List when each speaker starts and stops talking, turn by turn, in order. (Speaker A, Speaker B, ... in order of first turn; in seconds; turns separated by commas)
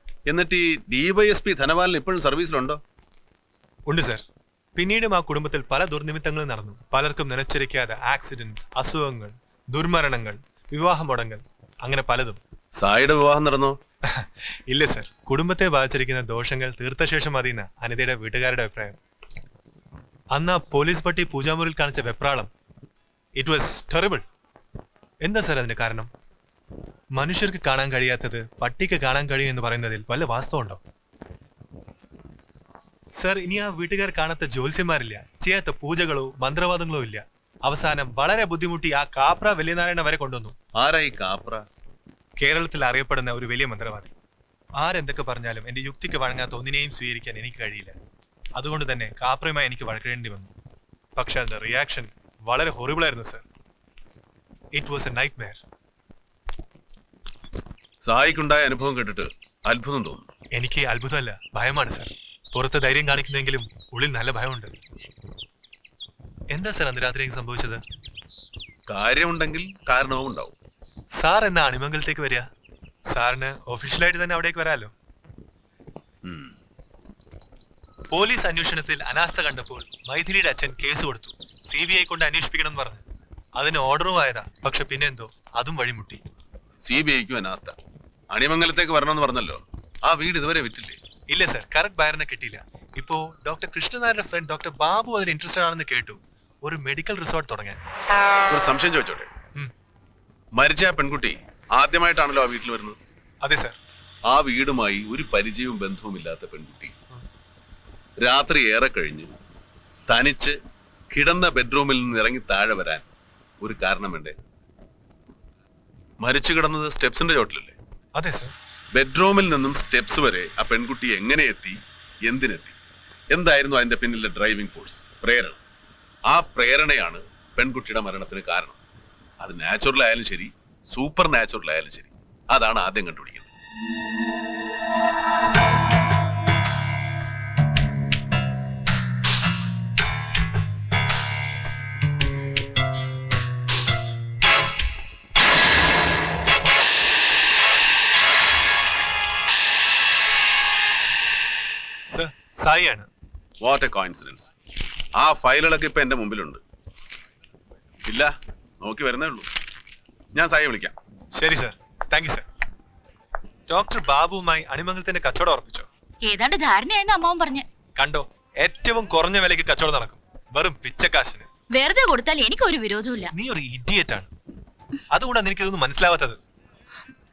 Speaker A: 0.3-2.8, Speaker B: 3.9-4.2, Speaker B: 4.7-12.4, Speaker A: 12.8-13.8, Speaker B: 14.1-19.0, Speaker B: 20.3-22.5, Speaker B: 23.4-24.2, Speaker B: 25.2-26.1, Speaker B: 27.1-30.8, Speaker B: 33.2-40.5, Speaker A: 40.8-41.6, Speaker B: 42.4-44.1, Speaker B: 44.8-48.0, Speaker B: 48.5-50.5, Speaker B: 51.1-53.4, Speaker B: 54.7-55.6, Speaker A: 58.0-60.2, Speaker B: 60.5-64.7, Speaker B: 66.5-67.8, Speaker A: 68.9-70.5, Speaker B: 71.2-72.5, Speaker B: 73.1-74.9, Speaker A: 76.2-76.5, Speaker B: 78.1-83.0, Speaker B: 83.5-86.2, Speaker A: 86.8-87.7, Speaker A: 88.3-91.0, Speaker B: 91.3-97.8, Speaker A: 98.5-99.3, Speaker A: 100.5-103.0, Speaker B: 103.4-103.8, Speaker A: 104.3-106.9, Speaker A: 108.2-109.3, Speaker A: 110.1-110.6, Speaker A: 111.1-113.0, Speaker A: 113.6-114.3, Speaker A: 116.2-117.7, Speaker B: 118.2-118.5, Speaker A: 118.9-122.8, Speaker A: 123.3-125.6, Speaker A: 126.3-128.8, Speaker A: 129.4-133.5, Speaker B: 152.1-153.1, Speaker A: 153.6-154.5, Speaker A: 155.2-156.6, Speaker A: 158.1-159.5, Speaker A: 160.3-160.9, Speaker B: 161.3-162.4, Speaker B: 163.7-165.9, Speaker C: 166.2-167.6, Speaker B: 167.9-171.5, Speaker C: 171.7-173.3, Speaker B: 173.3-174.3, Speaker B: 175.1-176.4